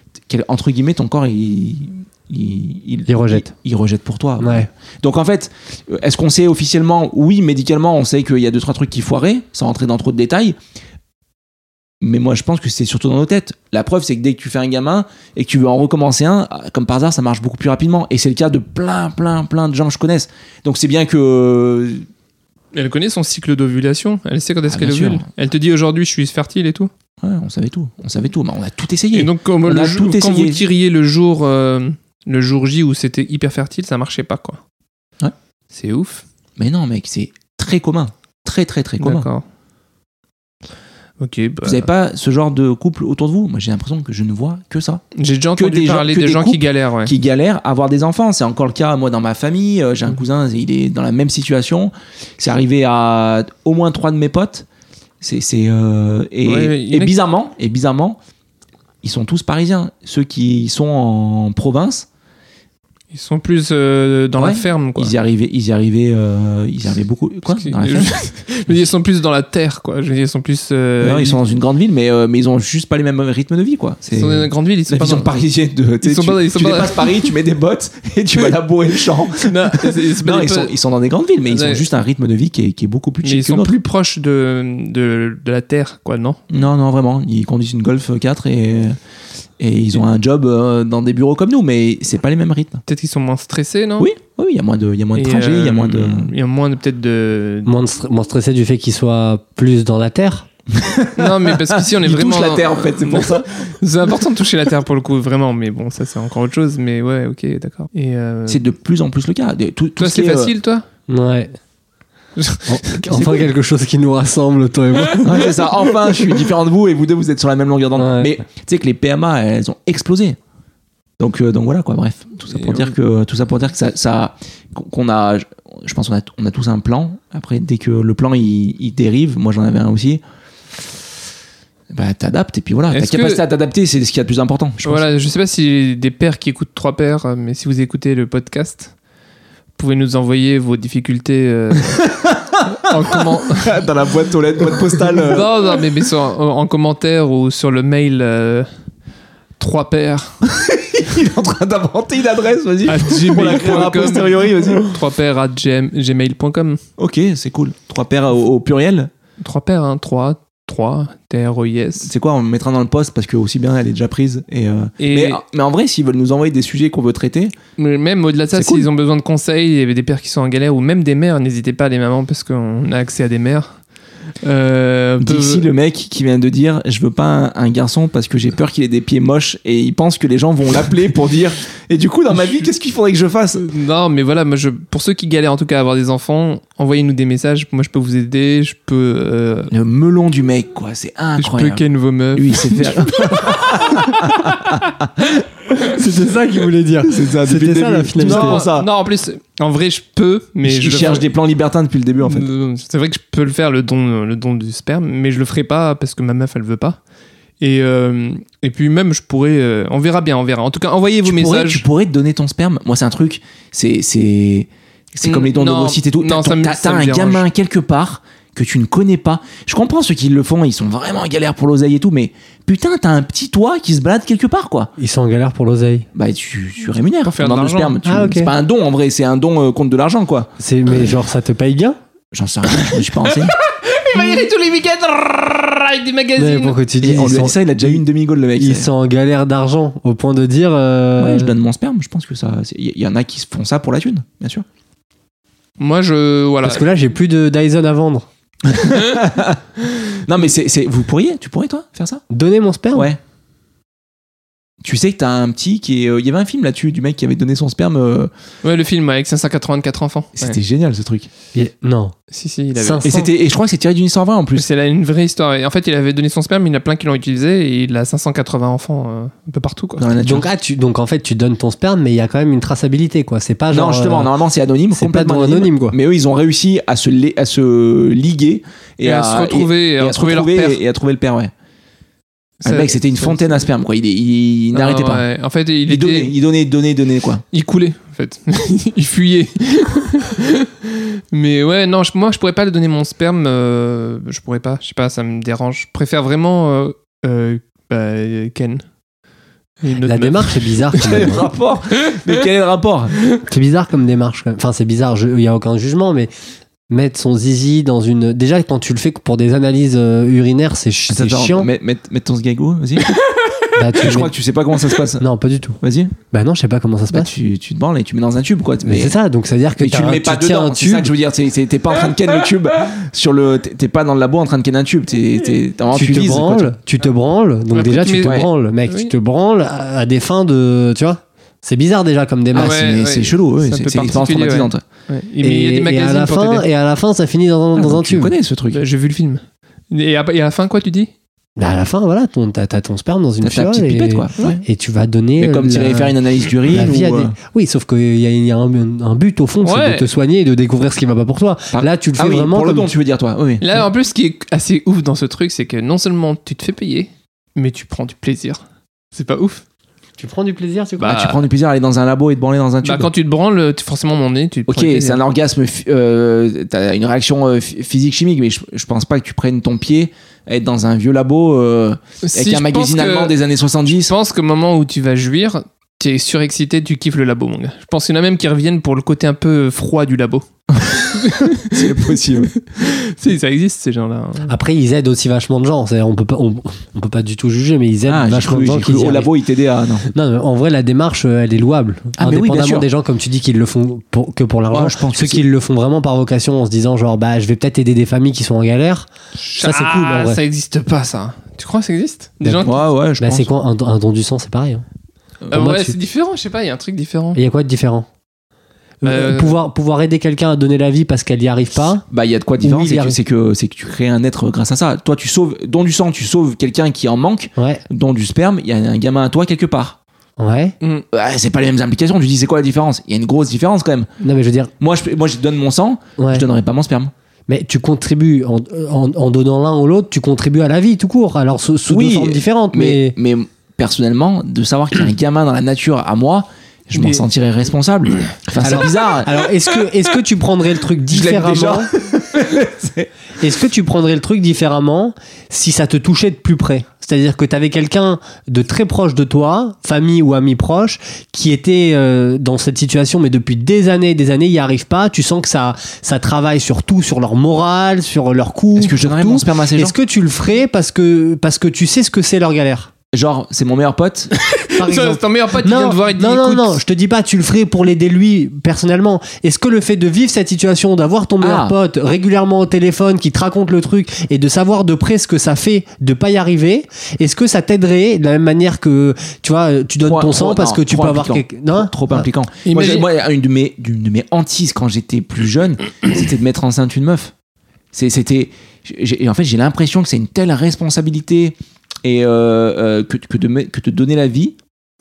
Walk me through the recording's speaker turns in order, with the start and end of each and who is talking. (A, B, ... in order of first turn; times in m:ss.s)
0:00.3-0:10.6 A
0:03.1-0:03.5 B
0:04.4-0:04.7 B
0:12.0-0:22.1 A
0:22.7-0:26.9 C
0:24.7-0:25.2 A
0:27.2-0:30.6 A
0:29.1-0:34.6 C
0:35.7-0:36.2 C
0:36.6-0:39.3 A
0:39.0-0:39.4 C
0:41.2-0:41.9 C
0:41.6-0:45.0 A
0:45.1-0:47.1 C
0:45.6-0:54.6 A
0:55.2-0:58.2 A
0:56.4-0:57.1 C
0:59.0-1:02.1 A
1:03.1-1:05.1 C
1:04.4-1:08.2 A
1:07.4-1:11.4 C
1:11.0-1:23.8 A
1:14.1-1:15.3 C
1:16.0-1:17.3 C
1:19.3-1:20.7 C
1:21.5-1:21.8 C
1:23.2-1:26.4 C
1:26.5-1:29.0 A
1:29.6-1:32.8 A
1:32.8-1:34.1 C
1:34.0-1:36.3 A
1:35.2-1:37.7 C
1:37.6-1:40.5 B
1:40.7-1:43.5 A
1:41.2-1:48.6 C
1:48.5-1:50.5 A
1:50.0-1:50.8 C
1:51.1-1:51.5 B
1:52.4-1:53.3 C
1:52.7-1:55.5 B
1:55.2-2:00.4 A
1:58.0-1:58.3 B
2:01.2-2:10.2 A
2:02.5-2:02.9 C
2:11.9-2:15.0 A
2:12.9-2:13.4 C
2:14.8-2:18.9 C
2:19.8-2:22.0 C
2:22.0-2:25.6 A
2:22.8-2:23.7 C
2:25.2-2:28.7 C
2:29.6-2:30.4 C
2:30.5-2:34.9 A
2:32.9-2:36.8 C
2:37.0-2:39.1 A
2:39.4-2:42.1 C
2:42.0-2:47.5 A
2:45.0-2:45.4 C
2:47.8-2:53.8 C
2:48.5-2:48.9 A
2:54.4-2:55.6 C
2:55.2-3:03.7 A
3:03.6-3:09.7 C
3:09.7-3:11.8 A
3:11.4-3:14.1 C
3:12.3-3:15.2 A
3:15.8-3:18.6 B
3:17.0-3:18.9 A
3:18.2-3:21.3 C
3:20.6-3:22.5 A
3:22.2-3:27.0 C
3:27.6-3:31.8 C
3:31.2-3:44.9 A
3:35.2-3:37.4 C
3:45.0-3:46.1 B
3:46.1-3:50.5 A
3:47.2-3:48.0 C
3:48.0-3:48.5 B
3:50.6-3:52.0 B
3:52.3-3:53.5 A
3:52.7-3:56.8 C
3:56.4-3:58.0 B
3:57.0-3:58.9 A
3:58.6-4:01.5 B
4:01.2-4:04.6 A
4:05.8-4:06.8 C
4:06.6-4:08.3 B
4:08.6-4:12.2 A
4:12.3-4:13.1 B
4:12.9-4:13.2 A
4:14.8-4:18.3 A
4:18.6-4:20.6 C
4:20.4-4:21.3 A
4:21.5-4:22.1 B
4:22.3-4:23.0 C
4:22.7-4:23.3 B
4:23.0-4:24.6 A
4:24.6-4:30.0 C
4:30.0-4:30.5 A
4:30.2-4:34.3 B
4:33.7-4:41.5 A
4:34.9-4:36.0 B
4:39.0-4:40.8 C
4:42.6-4:43.7 C
4:42.6-4:45.2 A
4:44.7-4:46.3 C
4:45.9-4:47.4 A
4:47.5-4:58.8 C
4:59.8-5:01.3 C
5:00.0-5:01.4 B
5:01.0-5:03.2 A
5:03.4-5:06.3 B
5:06.9-5:11.7 B
5:11.1-5:13.2 A
5:13.7-5:14.3 B
5:14.0-5:15.2 A
5:15.2-5:15.8 B
5:15.8-5:16.1 A
5:16.3-5:17.3 B
5:17.1-5:19.2 A
5:18.8-5:21.1 B
5:19.8-5:26.7 A
5:25.9-5:32.8 B
5:27.7-5:29.1 C
5:32.5-5:34.8 A
5:32.5-5:36.6 C
5:35.4-5:38.3 B
5:37.7-5:38.8 A
5:38.7-5:41.1 C
5:41.6-5:52.9 B
5:43.4-5:44.6 A
5:45.4-5:47.3 A
5:49.6-5:50.1 C
5:51.7-5:53.8 A
5:53.6-5:58.6 C
5:59.1-5:59.6 C
6:00.2-6:01.2 B
6:01.0-6:03.1 A
6:01.0-6:01.4 C
6:02.8-6:05.2 C
6:04.7-6:14.1 A
6:12.2-6:13.3 C
6:13.9-6:20.4 C
6:20.7-6:22.5 A
6:21.1-6:24.5 C
6:24.5-6:29.3 B
6:28.1-6:30.1 A
6:30.1-6:40.4 B
6:32.2-6:32.9 A
6:34.7-6:35.4 A
6:39.4-6:42.8 C
6:42.6-6:43.5 A
6:43.2-6:44.8 B
6:45.5-6:47.4 C
6:45.5-6:46.0 B
6:47.3-6:48.1 B
6:49.0-6:52.0 B
6:49.0-6:49.6 C
6:52.1-7:00.0 A
6:52.6-6:53.2 B
6:57.6-6:57.8 B
7:00.4-7:00.7 B
7:01.1-7:04.1 A
7:04.2-7:04.7 B
7:04.8-7:07.1 A
7:06.2-7:06.4 B
7:07.5-7:13.2 B
7:11.9-7:19.3 A
7:16.9-7:17.2 C
7:18.6-7:21.9 B
7:21.1-7:23.1 A
7:23.4-7:42.9 B
7:38.8-7:39.9 A
7:43.1-7:44.3 A
7:44.4-7:46.8 C
7:44.8-8:02.2 B
7:51.4-7:51.8 A
8:00.0-8:07.3 A
8:02.6-8:03.1 C
8:07.9-8:14.6 A